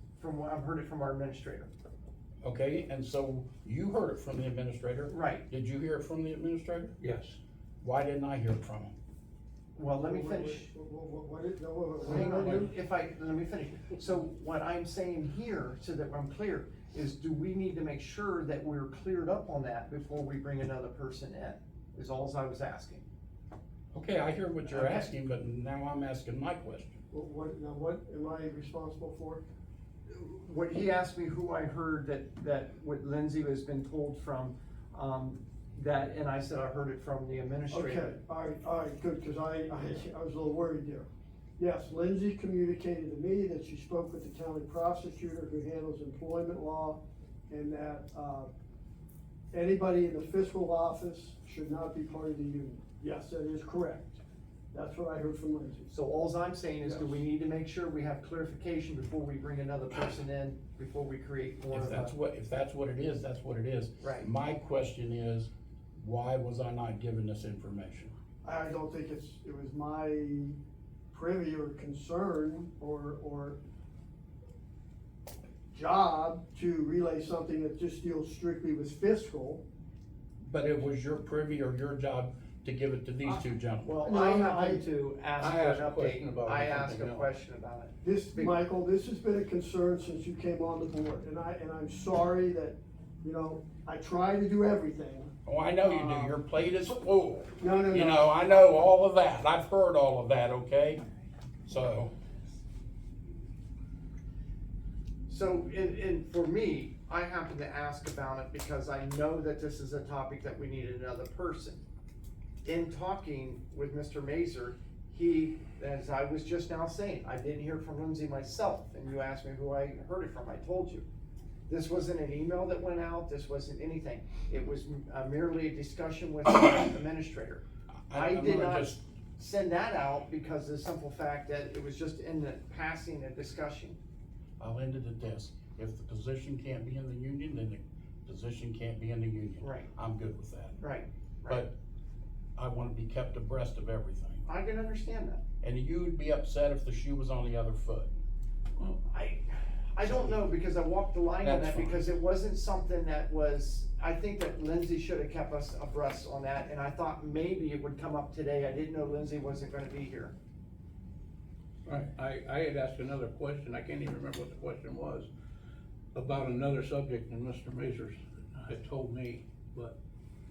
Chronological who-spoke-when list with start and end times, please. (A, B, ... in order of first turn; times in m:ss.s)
0:00.2-0:01.7 A
0:02.4-0:06.9 B
0:05.1-0:05.4 A
0:07.0-0:07.4 C
0:07.8-0:08.9 B
0:09.8-0:10.7 A
0:09.8-0:12.7 D
0:12.0-0:23.0 A
0:23.9-0:27.0 B
0:24.6-0:25.1 A
0:27.1-0:29.4 D
0:30.1-0:38.1 A
0:37.7-0:48.5 D
0:49.5-0:54.2 D
0:54.7-0:55.9 D
0:55.9-1:02.1 A
0:56.8-0:57.2 D
1:01.7-1:08.1 B
1:04.0-1:04.3 A
1:08.4-1:10.6 D
1:11.1-1:13.6 D
1:15.7-1:19.6 D
1:20.4-1:23.9 B
1:23.8-1:28.5 A
1:24.0-1:24.8 D
1:25.4-1:27.3 C
1:28.0-1:36.4 D
1:35.4-1:41.0 B
1:37.6-1:38.3 D
1:41.6-1:42.1 B
1:45.3-1:51.8 A
1:52.6-2:01.0 A
2:01.7-2:14.0 A
2:08.1-2:09.0 B
2:14.6-2:20.8 B
2:19.6-2:19.9 A
2:20.8-2:21.6 A
2:21.5-2:21.7 B
2:22.6-2:24.4 B
2:24.4-2:25.4 A
2:25.6-2:28.1 B
2:29.1-2:40.3 A
2:31.4-2:32.0 B
2:41.8-2:45.3 C
2:46.1-2:50.0 C